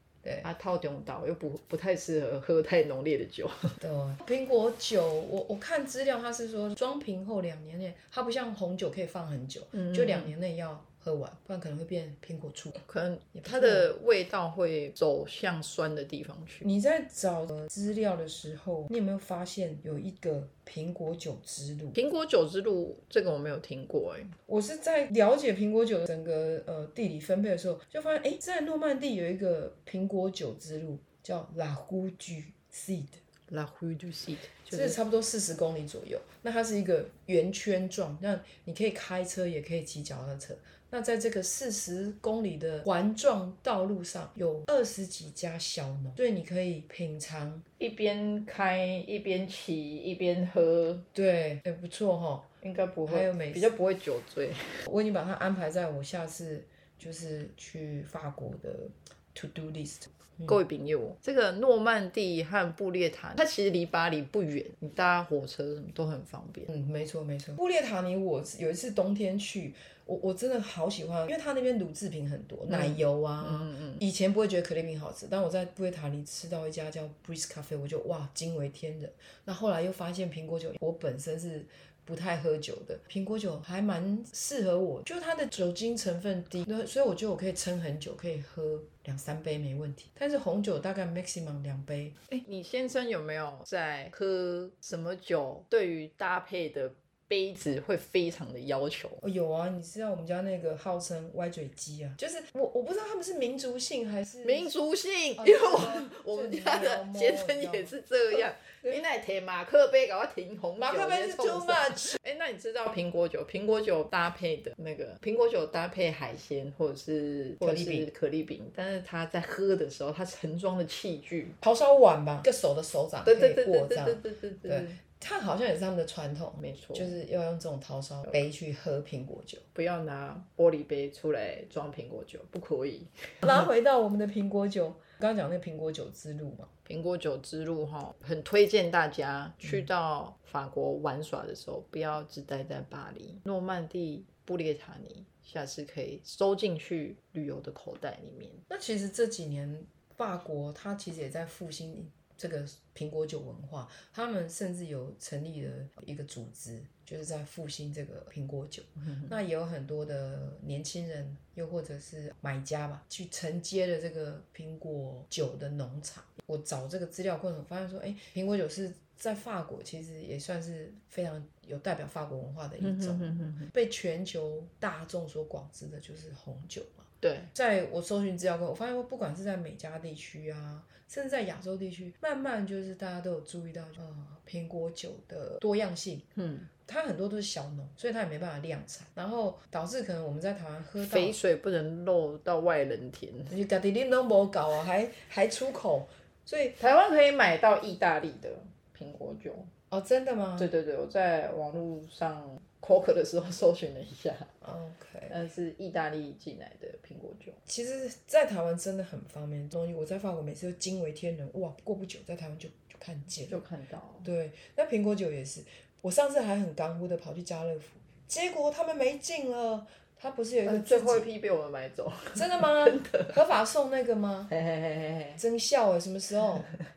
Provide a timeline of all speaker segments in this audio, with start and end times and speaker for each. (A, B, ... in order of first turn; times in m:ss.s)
0:00.2-0:00.5 A
0:00.4-0:03.8 B
0:03.8-0:12.8 A
0:09.7-0:10.3 B
0:12.8-0:16.7 B
0:13.3-0:13.9 A
0:16.6-0:22.0 A
0:21.9-0:24.3 B
0:24.5-0:33.2 A
0:33.5-0:35.0 B
0:34.7-0:47.6 A
0:47.8-0:51.0 B
0:51.1-0:52.5 A
0:52.6-0:54.9 B
0:53.1-0:53.7 A
0:54.9-1:00.6 A
1:00.5-1:06.7 B
1:06.7-1:32.2 A
1:12.7-1:14.0 B
1:32.3-1:39.2 B
1:39.2-1:44.7 A
1:44.4-2:01.6 B
1:45.4-1:49.0 A
1:50.8-1:52.2 A
1:57.6-1:58.1 A
2:01.6-2:09.6 A
2:03.3-2:05.0 B
2:06.6-2:07.2 B
2:09.8-2:13.6 B
2:13.4-2:16.7 A
2:16.9-2:28.6 B
2:28.7-3:06.3 A
2:39.0-2:39.3 B
2:52.8-2:53.7 B
2:57.2-2:57.5 B
3:06.4-3:06.7 B
3:06.8-3:11.4 A
3:11.0-3:13.6 B
3:13.5-3:16.8 A
3:16.8-3:19.7 B
3:19.9-3:20.7 A
3:20.6-3:24.5 B
3:24.6-3:25.4 A
3:25.3-3:27.6 B
3:27.7-3:33.6 A
3:33.5-3:34.3 B
3:34.2-3:41.3 A
3:40.6-3:43.4 B
3:42.4-3:44.5 A
3:44.5-3:45.4 B
3:45.4-3:46.7 A